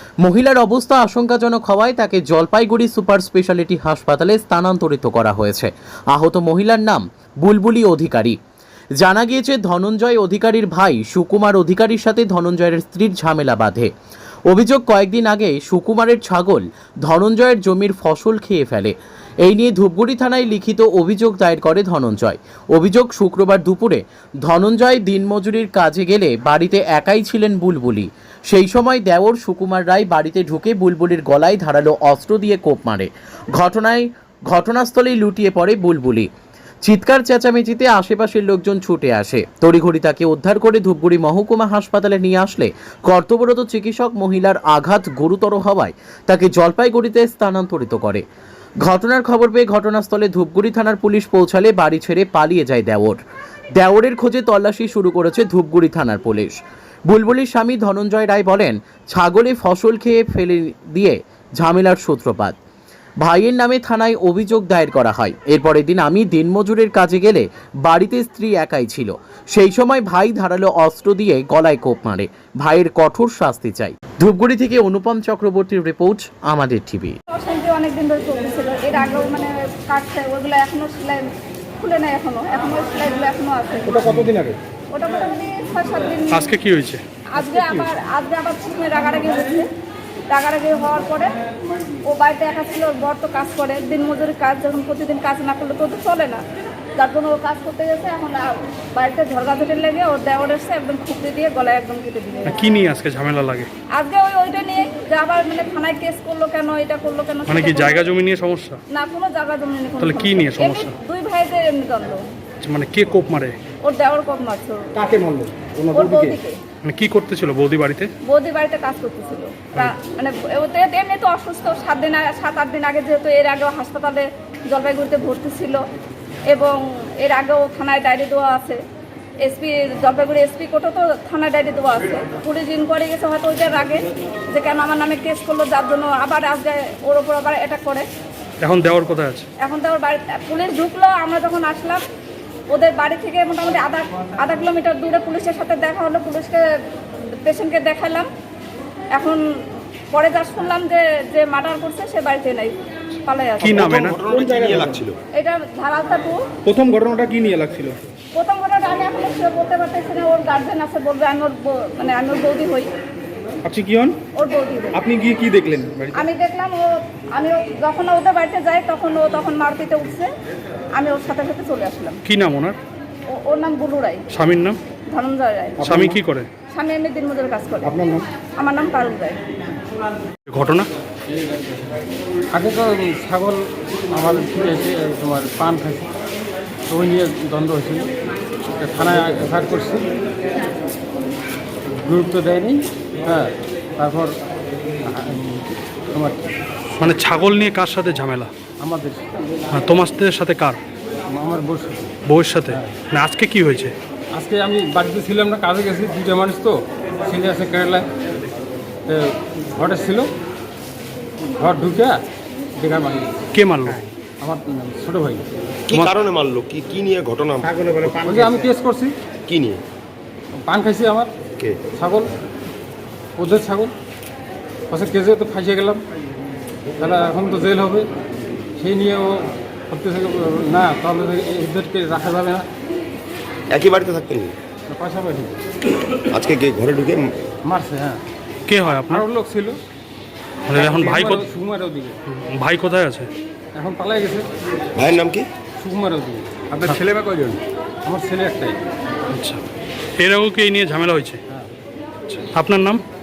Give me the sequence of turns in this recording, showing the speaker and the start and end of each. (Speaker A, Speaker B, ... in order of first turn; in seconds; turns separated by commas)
Speaker A: 0.2-8.4, Speaker A: 9.0-13.9, Speaker A: 14.5-36.3, Speaker A: 36.8-48.2, Speaker A: 48.8-53.2, Speaker A: 53.8-62.6, Speaker A: 63.2-77.2, Speaker B: 77.3-81.3, Speaker B: 81.8-84.2, Speaker C: 83.9-84.6, Speaker B: 84.9-86.5, Speaker D: 86.3-87.0, Speaker B: 87.3-89.7, Speaker C: 87.5-87.8, Speaker B: 90.3-91.3, Speaker B: 92.0-96.4, Speaker B: 97.0-102.6, Speaker D: 102.5-103.7, Speaker B: 103.9-108.0, Speaker D: 107.5-108.8, Speaker B: 108.9-112.2, Speaker D: 110.0-110.9, Speaker D: 112.6-113.6, Speaker B: 113.8-114.9, Speaker C: 115.0-116.4, Speaker B: 115.9-116.6, Speaker D: 116.8-118.1, Speaker B: 118.2-125.8, Speaker B: 126.5-128.8, Speaker B: 129.4-138.1, Speaker D: 138.6-139.5, Speaker B: 139.6-142.0, Speaker B: 142.7-148.3, Speaker B: 149.1-149.4, Speaker B: 150.1-153.7, Speaker D: 153.6-154.2, Speaker C: 153.6-155.0, Speaker E: 153.7-155.2, Speaker B: 155.3-156.4, Speaker C: 156.6-158.0, Speaker B: 158.3-162.9, Speaker C: 163.6-164.2, Speaker B: 164.3-165.0, Speaker C: 164.9-166.2, Speaker B: 166.1-170.3, Speaker B: 170.9-172.2, Speaker D: 172.2-172.8, Speaker B: 173.3-174.2, Speaker D: 174.3-174.8, Speaker B: 175.1-175.8, Speaker C: 175.8-176.2, Speaker D: 175.8-176.5, Speaker B: 176.7-178.0, Speaker C: 177.8-178.3, Speaker B: 178.6-179.4, Speaker D: 180.5-180.9, Speaker F: 182.5-186.1, Speaker F: 186.9-188.1, Speaker F: 188.7-190.1, Speaker F: 191.9-194.4, Speaker F: 195.0-196.5, Speaker D: 197.0-198.5, Speaker F: 198.8-199.6, Speaker D: 199.7-200.8, Speaker F: 201.3-202.2, Speaker D: 202.2-203.9, Speaker F: 202.7-202.9, Speaker F: 204.3-208.1, Speaker F: 209.1-210.3, Speaker F: 211.5-212.2, Speaker F: 212.8-213.4, Speaker D: 213.5-214.0, Speaker F: 214.4-215.4, Speaker E: 215.9-218.2, Speaker C: 217.7-218.7, Speaker F: 218.2-219.2, Speaker E: 219.4-219.8, Speaker F: 220.6-221.3, Speaker F: 221.9-222.3, Speaker F: 223.4-223.9, Speaker F: 224.9-226.0, Speaker F: 227.0-228.1, Speaker F: 228.8-232.7, Speaker E: 233.7-234.6, Speaker F: 234.9-235.6, Speaker E: 236.1-237.3, Speaker F: 237.6-238.2, Speaker D: 238.7-239.2, Speaker F: 239.1-239.8, Speaker D: 240.7-241.4, Speaker F: 240.7-242.2, Speaker D: 242.3-243.3, Speaker F: 243.7-244.5, Speaker E: 244.9-245.5, Speaker F: 245.8-246.7, Speaker E: 246.7-247.6, Speaker F: 248.0-248.8, Speaker D: 249.3-249.6, Speaker D: 250.2-251.4, Speaker D: 252.2-253.0